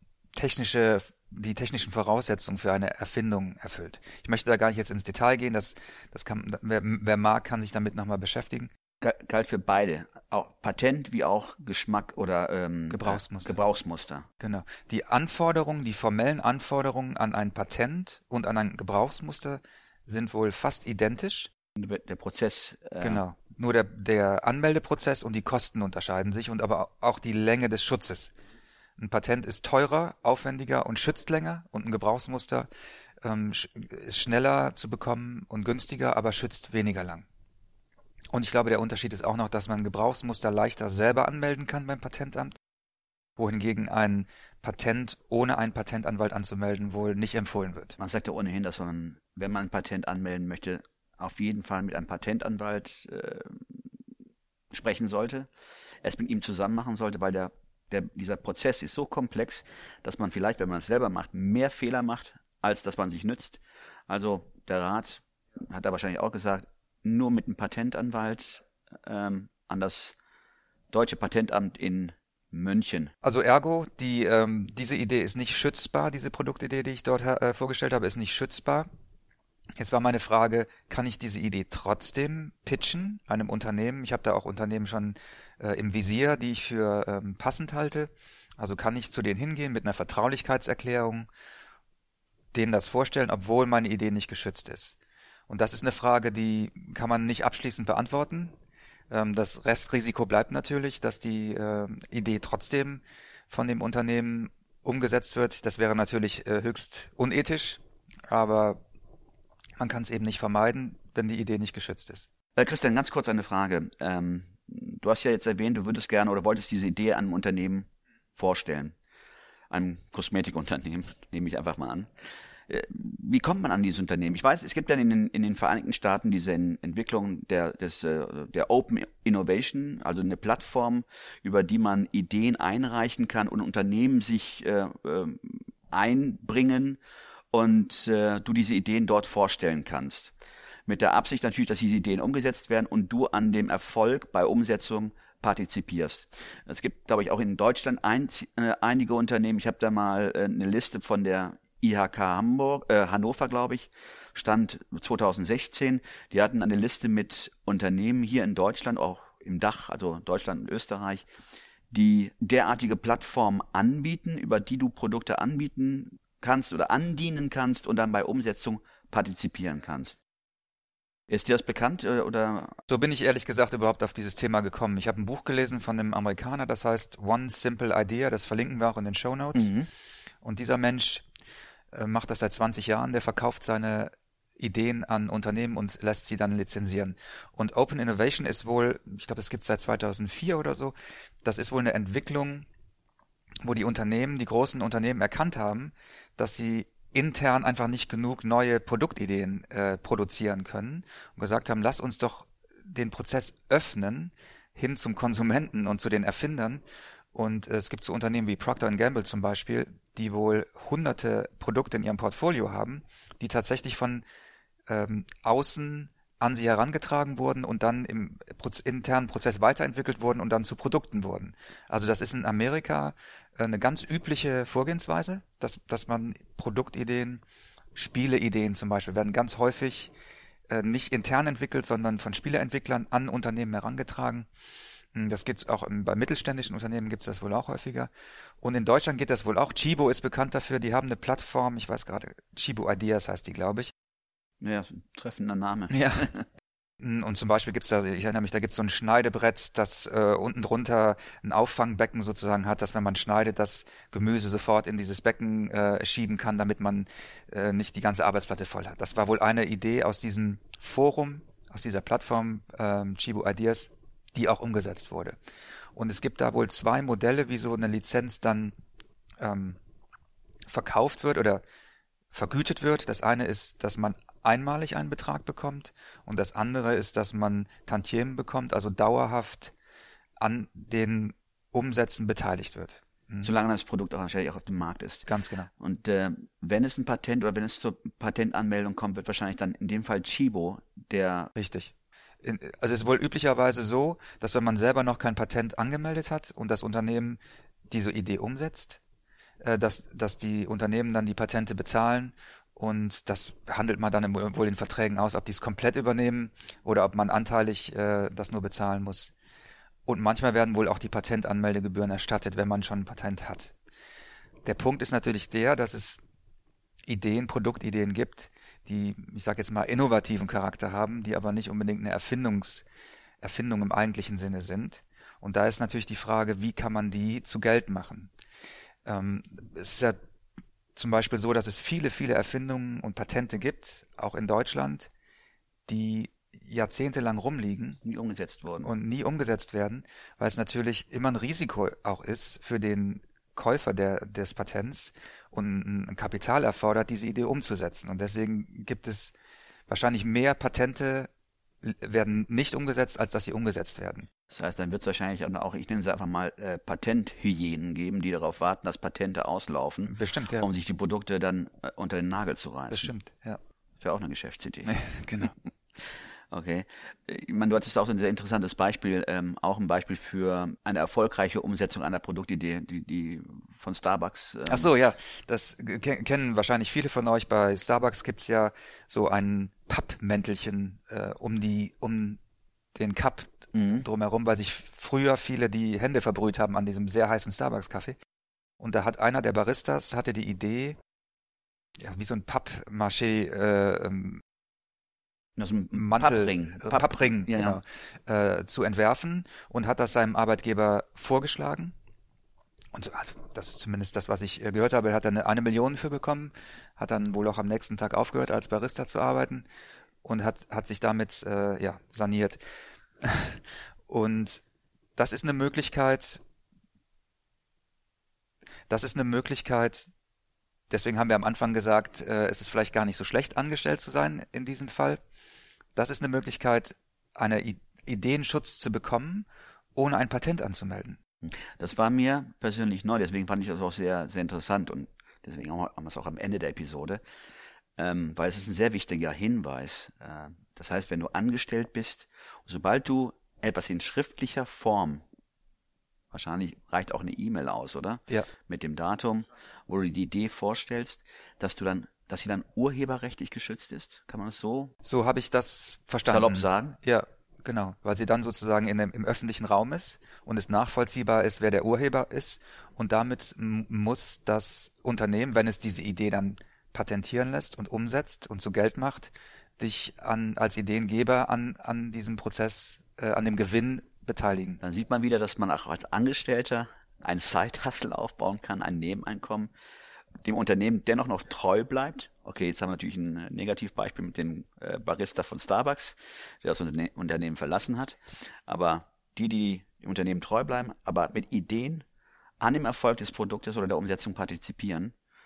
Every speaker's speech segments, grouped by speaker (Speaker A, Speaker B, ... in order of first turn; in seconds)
Speaker A: 0.3-8.7, 12.9-13.6, 14.4-21.5, 23.0-28.3, 29.0-32.7, 33.2-37.2, 38.3-42.5, 43.4-48.0, 73.2-78.9, 79.8-91.3, 92.5-95.0, 95.5-98.5, 99.1-108.8, 109.8-112.3, 172.9-179.7, 180.4-181.2, 181.9-192.7, 193.6-206.8, 207.3-214.2, 214.9-227.4, 227.9-230.1, 230.7-234.5, 235.1-238.1, 238.6-243.9, 245.9-246.3, 247.0-265.4, 265.9-268.8, 269.4-269.8, 270.7-271.6, 272.3-279.7, 280.4-283.5, 285.3-285.7, 291.6-299.0, 299.6-309.3, 310.1-313.7, 314.6-316.2, 317.1-322.8, 323.4-328.3, 329.1-330.2, 330.9-335.1, 335.9-338.0, 338.8-349.3, 349.9-351.3, 351.8-354.3, 360.1-360.7, 362.9-363.6, 364.9-365.5, 374.7-382.4, 382.9-388.1, 388.8-391.0, 392.0-394.4, 395.9-401.9, 402.9-409.6, 410.2-412.6, 413.2-414.6, 415.2-416.4, 418.9-420.1, 420.9-425.2, 425.9-431.2, 455.0-474.8
Speaker B: 9.0-14.2, 21.8-23.2, 48.0-53.8, 54.7-55.5, 56.0-70.2, 70.9-73.1, 112.5-119.0, 119.7-122.1, 122.7-137.0, 137.5-140.3, 140.9-161.2, 161.9-170.2, 171.3-172.8, 179.5-179.9, 244.6-246.4, 283.4-285.3, 285.8-291.5, 338.0-338.9, 354.5-363.1, 364.0-364.9, 366.5-374.9, 383.7-384.1, 395.6-397.8, 431.4-437.2, 438.0-445.2, 446.3-454.9, 456.2-457.0, 474.8-479.7, 480.4-492.0, 492.6-495.1